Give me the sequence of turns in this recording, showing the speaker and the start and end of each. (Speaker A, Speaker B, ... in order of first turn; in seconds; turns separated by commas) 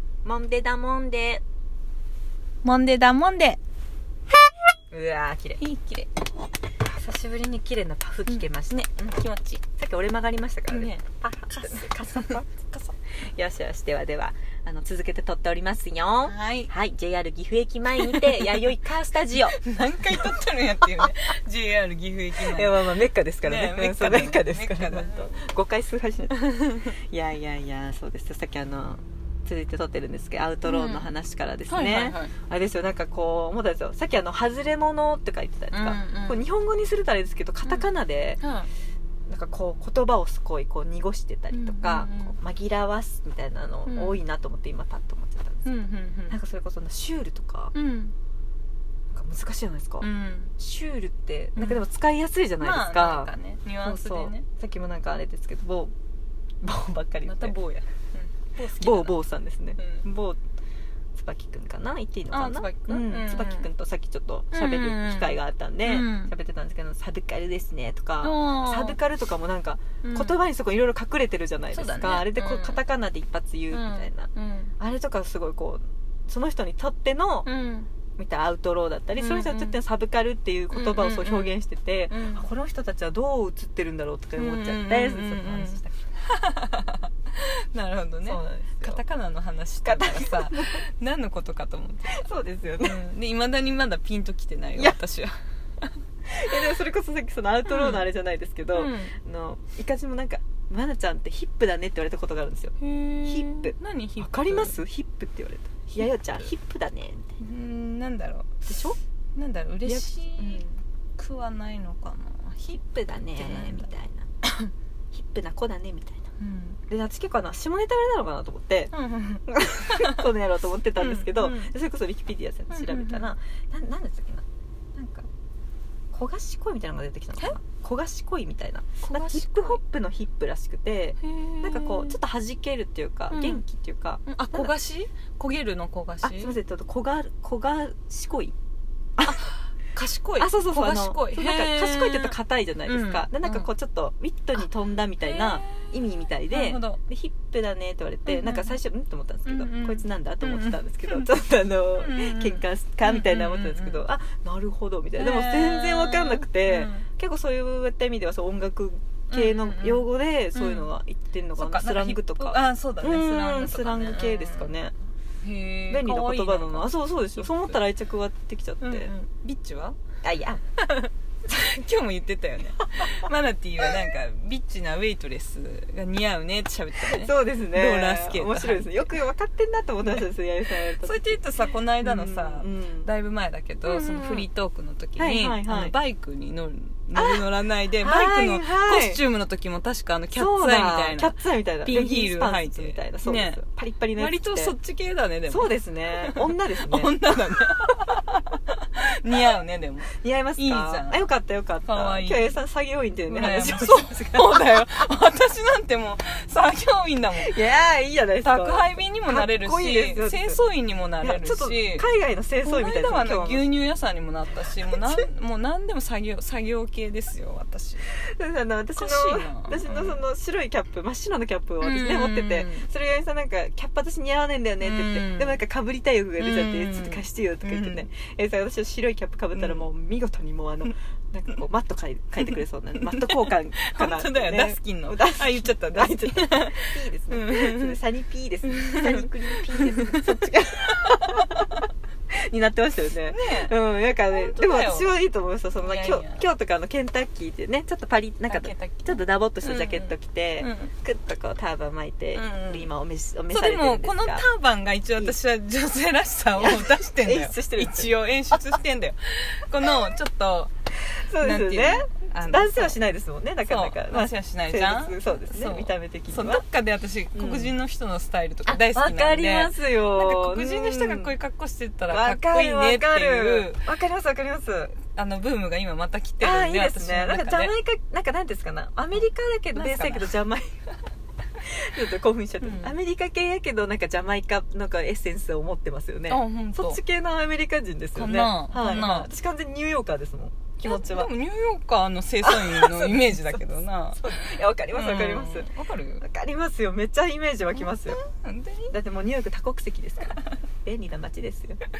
Speaker A: 0.2-1.4, Speaker B: 2.6-3.6, Speaker A: 4.9-5.6, Speaker B: 5.6-6.1, Speaker A: 6.9-9.1, Speaker B: 8.2-9.6, Speaker A: 9.7-19.6, Speaker B: 10.7-12.9, Speaker B: 16.2-16.7, Speaker B: 17.9-18.7, Speaker B: 19.3-25.4, Speaker A: 22.4-38.4, Speaker B: 30.6-31.1, Speaker B: 31.7-32.3, Speaker B: 35.7-36.4, Speaker B: 38.4-38.7, Speaker A: 39.3-47.7, Speaker B: 41.5-42.4, Speaker B: 43.9-44.2, Speaker B: 45.6-46.4, Speaker B: 47.7-48.1, Speaker A: 49.1-53.3, Speaker B: 50.0-50.5, Speaker B: 51.5-51.8, Speaker B: 52.6-54.5, Speaker A: 53.8-55.9, Speaker A: 56.6-57.5, Speaker B: 57.2-59.2, Speaker A: 58.6-60.4, Speaker B: 59.8-60.0, Speaker A: 61.1-77.5, Speaker B: 62.3-63.7, Speaker B: 64.5-66.3, Speaker B: 68.2-69.0, Speaker B: 70.0-70.4, Speaker B: 71.7-72.8, Speaker B: 73.7-74.7, Speaker B: 77.4-77.9, Speaker A: 78.2-86.1, Speaker B: 79.2-79.8, Speaker B: 80.7-81.6, Speaker B: 82.1-82.5, Speaker B: 84.4-92.3, Speaker A: 88.2-89.0, Speaker A: 89.8-90.8, Speaker A: 92.1-93.0, Speaker B: 92.8-95.9, Speaker A: 96.2-107.3, Speaker B: 97.7-98.0, Speaker B: 98.7-99.1, Speaker B: 102.8-104.8, Speaker B: 105.9-106.5, Speaker B: 107.4-108.7, Speaker A: 108.7-109.0, Speaker B: 109.3-110.6, Speaker A: 109.8-110.8, Speaker B: 111.2-113.9, Speaker A: 112.7-114.3, Speaker B: 114.4-114.7, Speaker A: 115.1-116.3, Speaker B: 116.4-116.8, Speaker A: 116.9-118.9, Speaker B: 118.9-120.3, Speaker A: 119.5-124.4, Speaker B: 121.0-121.7, Speaker B: 122.7-123.3, Speaker A: 124.9-125.3, Speaker A: 126.1-134.7, Speaker B: 129.0-129.8, Speaker B: 131.2-132.2, Speaker B: 133.3-133.6, Speaker B: 134.2-136.6, Speaker A: 136.2-138.5, Speaker B: 139.2-142.3, Speaker A: 140.4-164.9, Speaker B: 142.8-143.7, Speaker B: 145.2-147.0, Speaker B: 148.2-148.8, Speaker B: 149.4-151.3, Speaker B: 152.0-154.0, Speaker B: 155.2-157.1, Speaker B: 159.3-160.9, Speaker B: 161.6-164.7, Speaker B: 165.4-167.8, Speaker A: 165.9-169.1, Speaker B: 168.8-170.0, Speaker A: 170.2-170.6, Speaker B: 170.8-179.2, Speaker A: 177.0-181.5, Speaker B: 180.0-193.6, Speaker A: 182.0-183.1, Speaker A: 183.8-184.5, Speaker A: 185.2-185.9, Speaker A: 187.1-187.4, Speaker A: 188.0-189.2, Speaker A: 190.3-194.7, Speaker B: 194.2-201.3, Speaker A: 195.5-198.2, Speaker A: 200.1-205.1, Speaker B: 201.8-202.5, Speaker B: 203.3-207.5, Speaker A: 207.3-210.6, Speaker B: 208.4-212.0, Speaker A: 211.2-213.7, Speaker B: 212.6-218.1, Speaker A: 214.8-215.2, Speaker A: 218.1-241.8, Speaker B: 219.0-220.2, Speaker B: 221.8-222.8, Speaker B: 224.8-225.6, Speaker B: 226.4-228.1, Speaker B: 229.5-229.9, Speaker B: 232.4-238.0, Speaker B: 238.7-240.4, Speaker B: 241.0-241.8, Speaker A: 242.3-254.4, Speaker B: 243.3-243.7, Speaker B: 244.3-245.2, Speaker B: 245.7-246.5, Speaker B: 248.5-250.9, Speaker B: 252.3-252.9, Speaker B: 253.5-260.7, Speaker A: 256.6-258.1, Speaker A: 261.1-266.6, Speaker B: 261.4-263.0, Speaker B: 263.6-273.8, Speaker A: 267.3-267.7, Speaker A: 268.6-271.3, Speaker A: 272.1-275.0, Speaker B: 275.1-277.7, Speaker A: 276.4-280.9, Speaker B: 279.7-280.4, Speaker A: 281.6-291.3, Speaker B: 282.6-282.9, Speaker B: 286.3-287.0, Speaker B: 288.1-289.3, Speaker B: 290.8-294.3, Speaker A: 292.4-298.2, Speaker B: 294.9-296.2, Speaker B: 297.7-298.9, Speaker A: 298.9-301.8